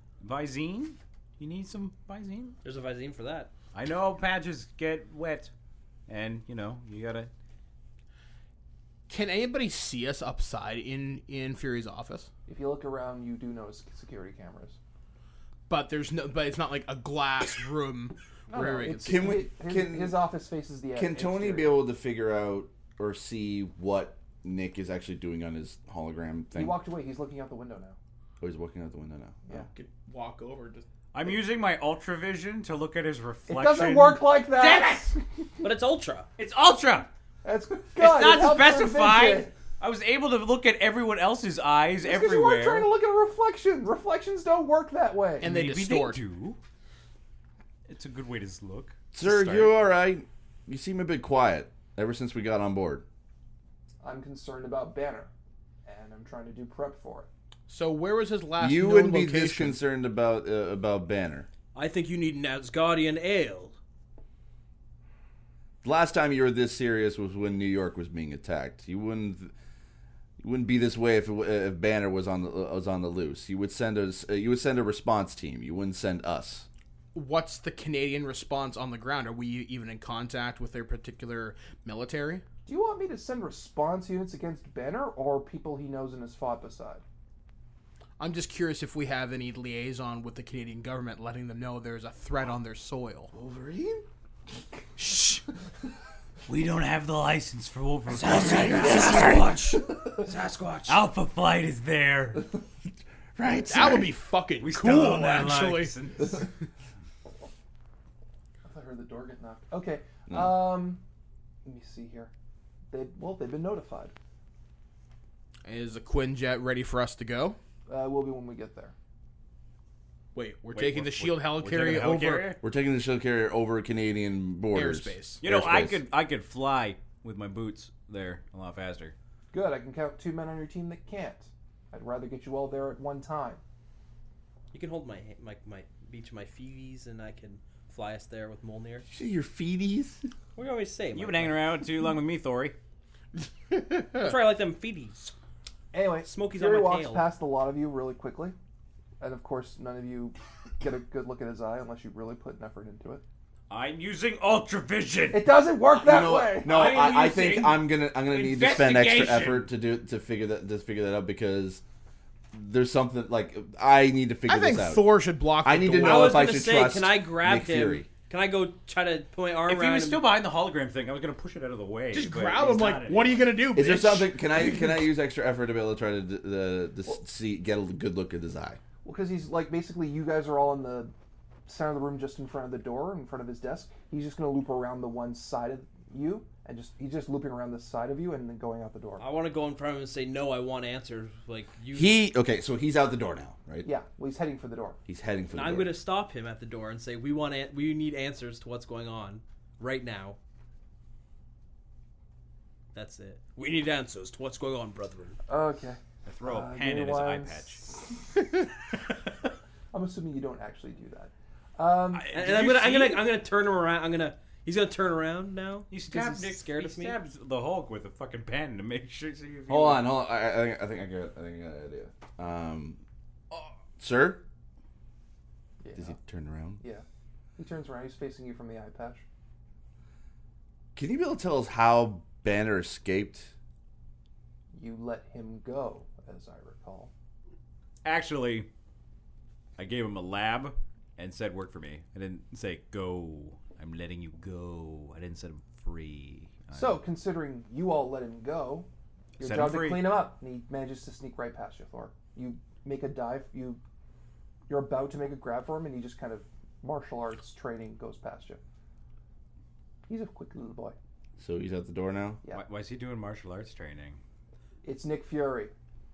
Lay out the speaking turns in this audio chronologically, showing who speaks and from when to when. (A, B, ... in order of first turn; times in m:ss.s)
0:00.2-0:02.6 A
0:02.6-0:03.5 B
0:03.7-0:05.5 A
0:06.1-0:07.3 A
0:09.1-0:12.3 C
0:12.5-0:14.8 D
0:15.7-0:19.4 C
0:18.5-0:21.8 D
0:19.0-0:20.2 E
0:20.9-0:26.8 E
0:26.5-0:28.0 D
0:28.4-0:29.5 E
0:29.5-0:30.8 C
0:31.1-0:35.1 A
0:33.5-0:35.6 D
0:35.6-0:36.3 B
0:36.4-0:37.1 A
0:37.4-0:39.5 D
0:38.0-0:42.9 A
0:42.0-0:45.5 D
0:45.4-0:46.2 C
0:45.4-0:46.6 A
0:47.9-0:49.7 A
0:49.1-0:53.0 E
0:54.0-0:55.3 D
0:55.8-0:57.3 D
0:57.7-0:59.8 C
0:58.6-1:01.5 E
1:01.7-1:03.8 B
1:05.8-1:09.5 E
1:10.4-1:16.7 E
1:17.1-1:22.4 C
1:22.7-1:27.0 D
1:28.2-1:33.3 C
1:33.3-1:34.0 E
1:35.0-1:35.4 A
1:36.5-1:42.5 A
1:38.1-1:40.0 E
1:40.5-1:40.9 B
1:43.4-1:44.1 E
1:43.7-1:46.0 C
1:44.6-1:46.5 A
1:48.6-1:51.0 D
1:50.3-1:50.6 E
1:51.6-1:52.3 D
1:52.9-1:54.1 D
1:55.6-1:57.6 C
1:57.9-1:58.9 D
2:00.3-2:02.6 C
2:00.7-2:02.6 A
2:02.6-2:06.0 E
2:04.7-2:05.4 C
2:05.4-2:09.2 A
2:09.5-2:13.6 D
2:14.7-2:19.1 B
2:19.1-2:20.3 E
2:20.6-2:21.7 B
2:21.1-2:22.8 A
2:23.7-2:24.3 C
2:24.1-2:25.3 B
2:25.9-2:28.6 D
2:26.2-2:27.3 B
2:29.2-2:33.2 D
2:33.7-2:35.6 A
2:35.3-2:36.8 D
2:36.0-2:41.8 E
2:36.6-2:39.7 A
2:42.5-2:48.1 E
2:44.5-2:46.5 C
2:46.0-2:50.3 B
2:49.7-2:53.5 A
2:52.1-2:54.5 C
2:53.7-2:58.8 E
2:59.0-3:01.1 D
3:01.7-3:09.2 D
3:09.2-3:12.2 B
3:11.9-3:13.9 E
3:13.8-3:15.0 D
3:15.1-3:15.9 E
3:15.5-3:20.4 B
3:22.9-3:25.4 B
3:25.5-3:27.8 D
3:26.3-3:27.8 A
3:29.9-3:32.3 D
3:32.1-3:33.3 A
3:32.3-3:37.2 B
3:35.9-3:40.1 A
3:39.7-3:43.0 E
3:44.0-3:44.4 E
3:45.8-3:46.2 D
3:46.0-3:46.8 E
3:46.8-3:47.0 D
3:47.6-3:49.2 D
3:51.0-3:53.5 E
3:54.7-3:57.1 D
3:58.0-3:58.7 A
3:59.8-4:07.0 A
4:06.7-4:08.9 D
4:09.4-4:10.2 A
4:09.4-4:13.8 D
4:14.7-4:18.6 D
4:20.1-4:21.0 D
4:21.4-4:22.4 E
4:22.5-4:24.2 A
4:24.8-4:25.7 D